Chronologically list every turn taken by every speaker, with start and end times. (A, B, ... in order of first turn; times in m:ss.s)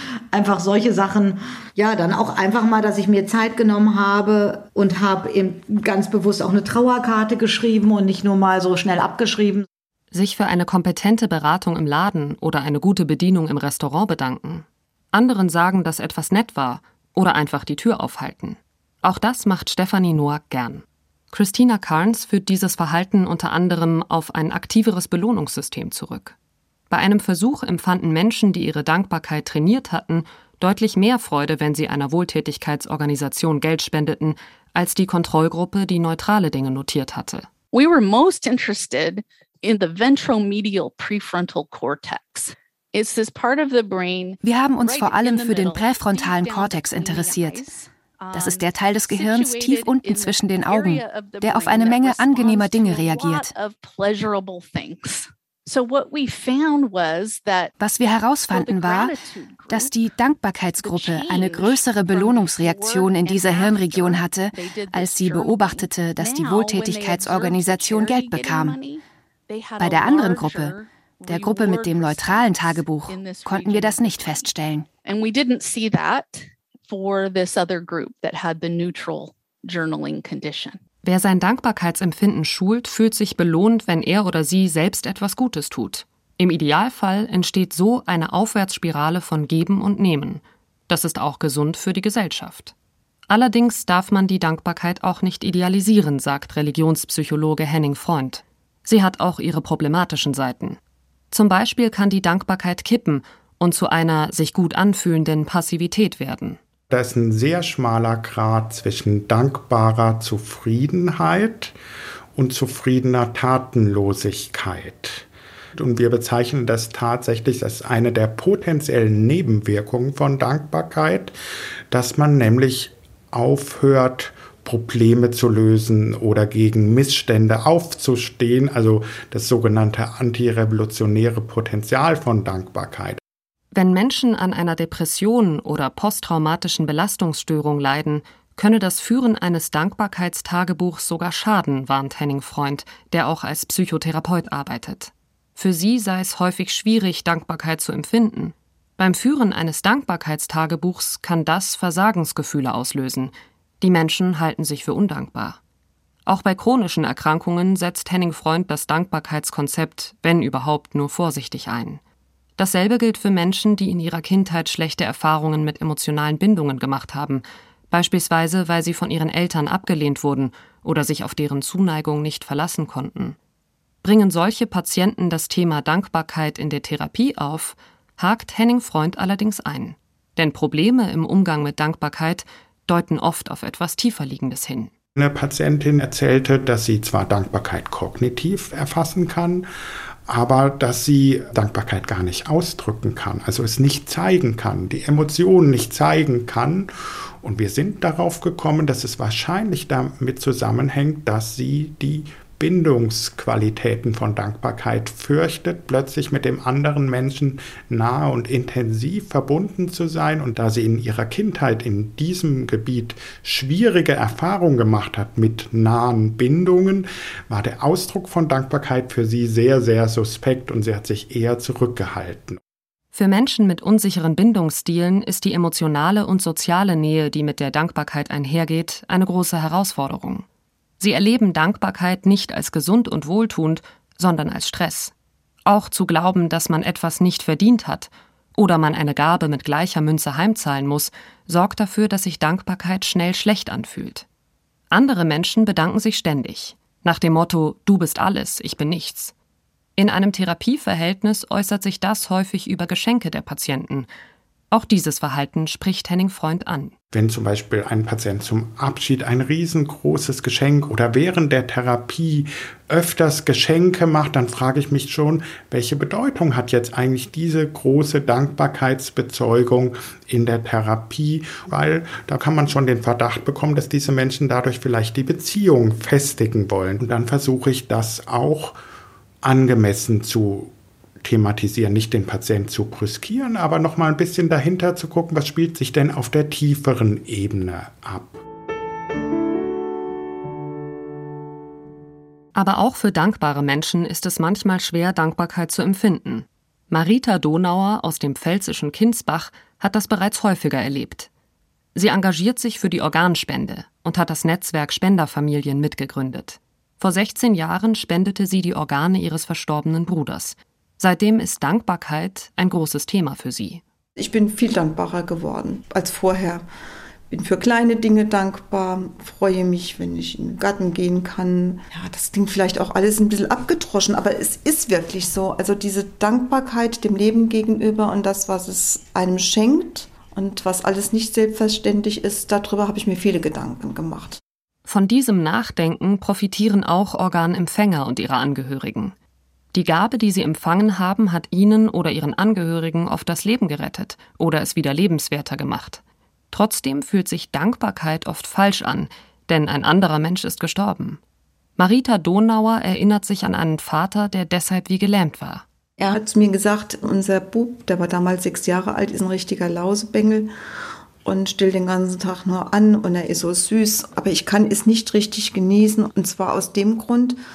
0:00.3-0:09.6 A
0:10.1-0:26.3 B
0:26.9-0:37.5 B
0:37.7-0:57.7 C
0:44.4-0:47.7 D
0:48.3-0:53.5 D
0:57.8-0:59.2 D
0:58.5-0:59.9 C
0:59.7-1:08.8 D
1:00.8-1:14.5 C
1:09.8-1:10.7 D
1:11.2-1:14.9 D
1:15.0-1:20.8 C
1:21.0-1:32.7 B
1:33.3-1:40.8 B
1:41.3-1:46.6 B
1:46.9-1:51.7 E
1:52.3-2:01.3 E
2:01.9-2:13.2 E
2:13.7-2:35.6 B
2:36.2-2:42.0 B
2:42.6-2:53.4 B
2:54.0-3:04.9 B
3:05.2-3:09.7 E
3:10.3-3:42.6 E
3:43.1-3:50.4 B
3:51.0-3:55.1 B
3:55.6-4:04.2 B
4:04.9-4:09.3 B
4:10.0-4:14.1 B
4:14.7-4:16.9 B
4:17.1-4:38.8 E
4:39.4-4:48.4 E
4:52.5-5:01.3 B
5:01.9-5:13.8 B
5:14.2-5:16.6 F
5:17.3-5:34.4 F
5:34.8-5:39.1 B
5:39.7-5:46.0 B
5:46.5-5:51.2 B
5:51.8-5:55.6 B
5:56.0-6:00.5 F
6:01.2-6:07.4 F